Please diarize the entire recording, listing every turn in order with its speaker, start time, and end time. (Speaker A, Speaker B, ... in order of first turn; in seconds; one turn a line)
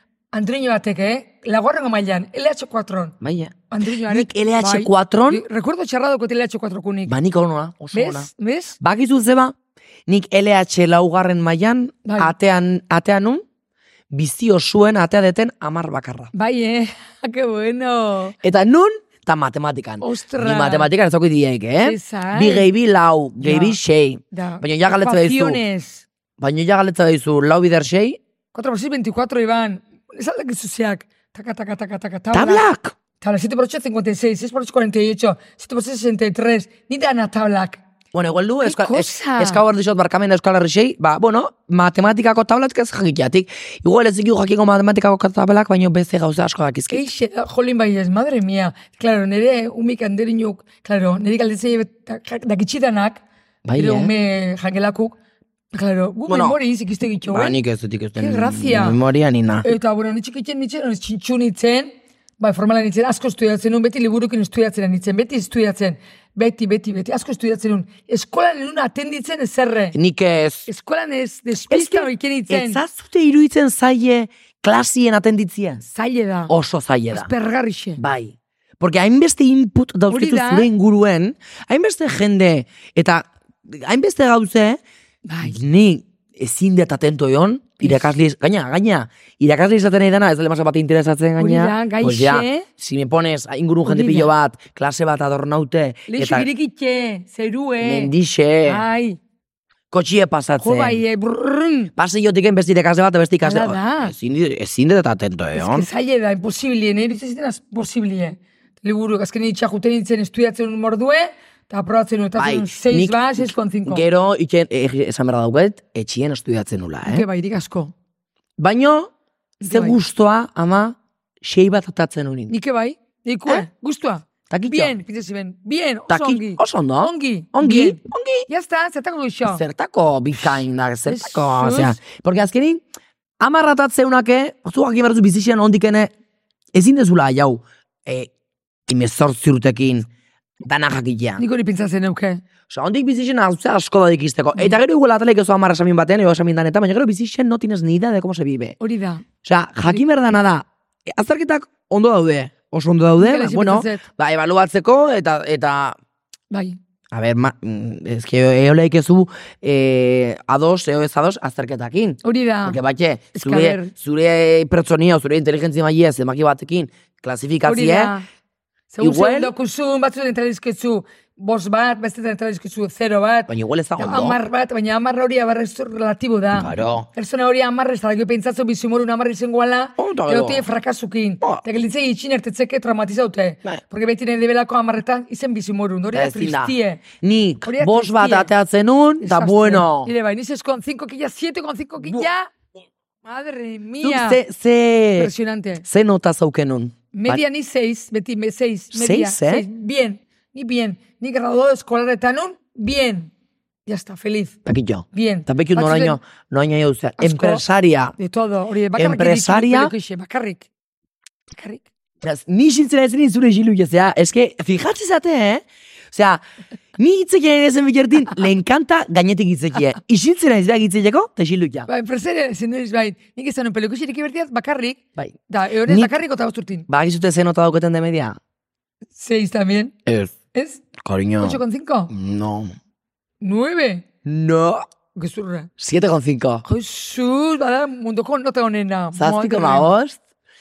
Speaker A: 0.3-3.1
Speaker B: 3.2-5.4
Speaker A: 3.7-7.2
Speaker B: 7.0-8.3
Speaker A: 7.9-8.8
Speaker B: 8.8-9.5
Speaker B: 10.1-13.4
Speaker A: 12.0-12.3
Speaker B: 14.1-16.3
Speaker A: 16.3-18.4
Speaker B: 18.4-25.6
Speaker A: 20.0-20.9
Speaker A: 21.8-22.7
Speaker A: 23.4-23.8
Speaker A: 24.3-26.0
Speaker B: 26.4-28.2
Speaker A: 28.5-32.6
Speaker B: 32.3-33.0
Speaker A: 33.2-37.8
Speaker B: 38.1-47.0
Speaker A: 38.6-39.6
Speaker A: 46.9-53.2
Speaker B: 53.6-54.1
Speaker A: 53.8-55.1
Speaker A: 55.7-57.5
Speaker B: 56.3-56.6
Speaker B: 57.3-59.7
Speaker A: 58.2-59.0
Speaker A: 59.6-69.9
Speaker B: 69.9-70.7
Speaker A: 70.7-72.8
Speaker B: 71.7-75.8
Speaker A: 75.8-76.5
Speaker B: 76.5-77.3
Speaker A: 77.1-78.0
Speaker B: 78.0-84.8
Speaker A: 80.1-80.7
Speaker A: 85.2-85.6
Speaker B: 85.4-96.5
Speaker A: 91.4-92.7
Speaker A: 93.8-94.3
Speaker A: 96.1-98.1
Speaker B: 97.8-98.8
Speaker A: 98.6-99.2
Speaker B: 99.9-101.0
Speaker A: 100.6-101.9
Speaker B: 102.0-105.9
Speaker A: 103.4-104.1
Speaker A: 105.5-114.0
Speaker B: 112.4-117.3
Speaker A: 117.0-117.9
Speaker B: 118.6-119.1
Speaker A: 119.6-120.0
Speaker B: 119.6-122.5
Speaker A: 122.5-129.6
Speaker B: 124.5-125.0
Speaker B: 126.1-128.5
Speaker B: 129.4-132.8
Speaker A: 131.1-132.0
Speaker B: 133.4-136.1
Speaker B: 136.7-138.3
Speaker B: 138.9-140.1
Speaker B: 140.6-141.4
Speaker A: 141.4-142.4
Speaker B: 142.7-148.8
Speaker A: 148.8-149.2
Speaker B: 149.4-156.0
Speaker A: 153.2-154.1
Speaker A: 156.5-156.8
Speaker B: 157.1-168.1
Speaker A: 162.2-162.8
Speaker A: 163.3-163.9
Speaker A: 167.6-168.2
Speaker A: 168.9-187.0
Speaker B: 169.0-169.5
Speaker B: 173.5-174.4
Speaker B: 176.5-177.1
Speaker B: 180.0-180.7
Speaker B: 186.1-190.1
Speaker A: 187.6-188.5
Speaker A: 189.2-192.5
Speaker B: 192.0-192.3
Speaker A: 193.2-194.4
Speaker B: 194.0-195.3
Speaker A: 195.2-195.8
Speaker B: 195.8-197.4
Speaker A: 197.1-203.3
Speaker B: 198.9-199.7
Speaker A: 203.8-204.6
Speaker B: 204.7-208.1
Speaker A: 205.1-206.2
Speaker A: 207.2-207.6
Speaker A: 208.2-210.7
Speaker B: 208.9-209.9
Speaker A: 211.5-211.8
Speaker B: 212.2-216.4
Speaker B: 217.0-221.9
Speaker A: 221.9-226.9
Speaker B: 225.2-226.1
Speaker B: 226.9-228.4
Speaker A: 229.1-229.9
Speaker B: 230.1-230.3
Speaker A: 230.5-230.8
Speaker B: 231.0-232.7
Speaker A: 231.4-232.1
Speaker A: 233.4-234.0
Speaker B: 234.2-234.8
Speaker A: 235.1-235.7
Speaker B: 235.8-236.6
Speaker A: 236.7-239.9
Speaker B: 239.1-240.2